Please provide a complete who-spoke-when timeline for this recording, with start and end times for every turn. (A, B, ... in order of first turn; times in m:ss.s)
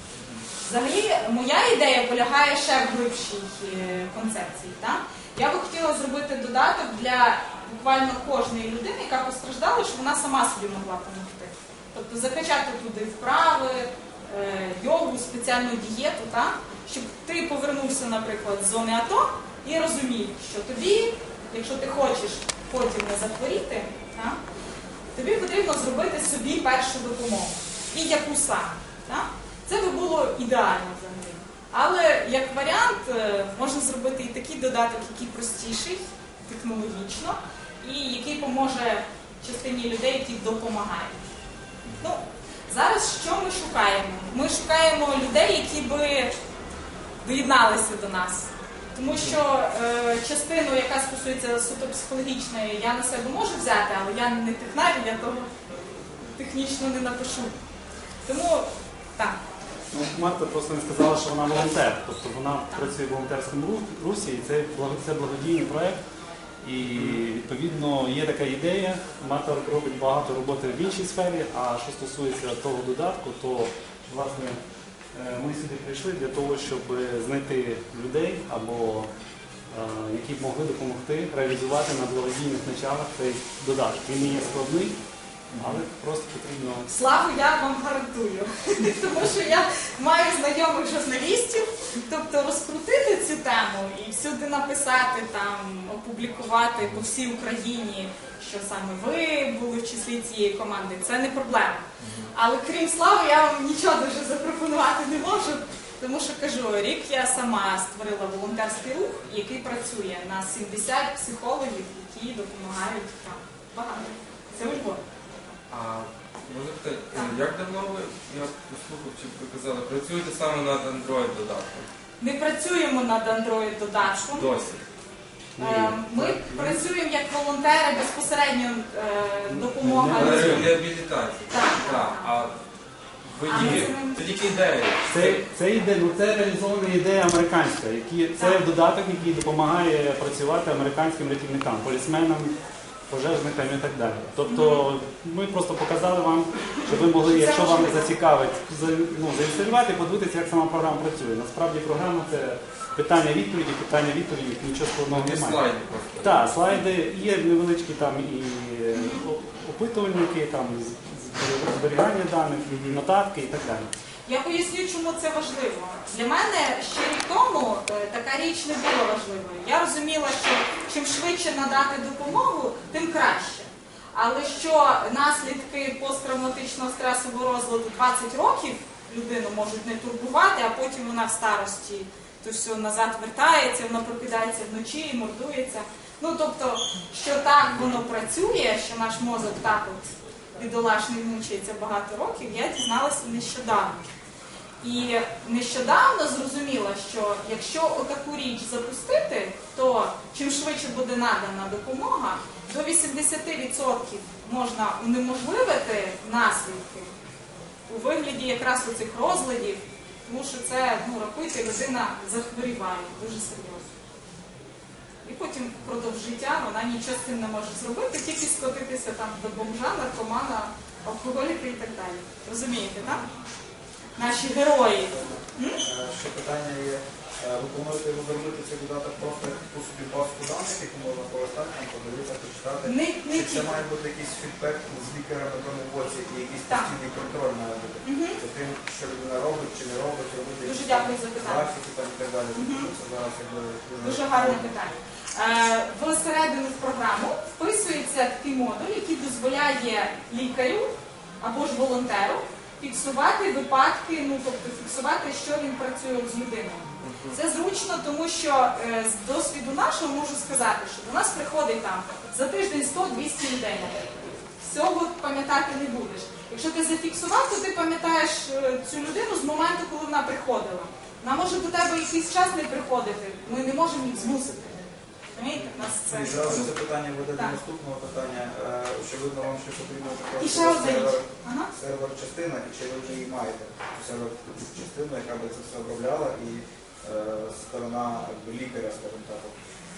0:00.6-0:24.4 A
0:25.1-0:41.2 A
0:42.0-0:46.3 A
0:47.2-0:55.5 A
0:49.1-0:49.4 B
0:56.2-0:57.5 A
0:58.2-0:59.4 A
0:59.9-1:06.0 C
1:06.6-1:14.6 C
1:15.1-1:19.1 C
1:19.7-1:25.0 C
1:25.5-1:25.8 B
1:25.6-1:26.9 C
1:26.9-1:55.0 A
1:42.0-1:42.3 B
1:55.7-2:01.9 B
1:57.1-1:57.4 A
2:02.2-2:04.5 A
2:04.3-2:04.8 B
2:05.6-2:06.8 C
2:05.6-2:10.8 A
2:09.5-2:10.8 C
2:10.1-2:12.6 B
2:11.5-2:12.3 A
2:13.2-2:15.4 B
2:13.4-2:14.2 A
2:13.5-2:13.9 C
2:15.0-2:22.5 C
2:23.1-2:35.6 C
2:24.5-2:24.9 A
2:27.1-2:28.1 A
2:35.1-2:36.4 B
2:36.2-2:43.9 C
2:38.9-2:39.2 A
2:42.7-2:43.0 B
2:44.2-3:14.0 A
3:07.6-3:08.0 B
3:14.8-3:27.1 A
3:27.9-3:33.9 A
3:35.2-3:43.2 A
3:44.2-3:45.8 A
3:45.1-4:04.7 D
3:52.8-3:53.7 A
3:58.0-3:58.4 A
4:00.6-4:01.7 A
4:02.6-4:02.9 A
4:04.0-4:36.6 A
4:17.0-4:17.4 B
4:36.1-4:49.6 D
4:40.4-4:41.7 A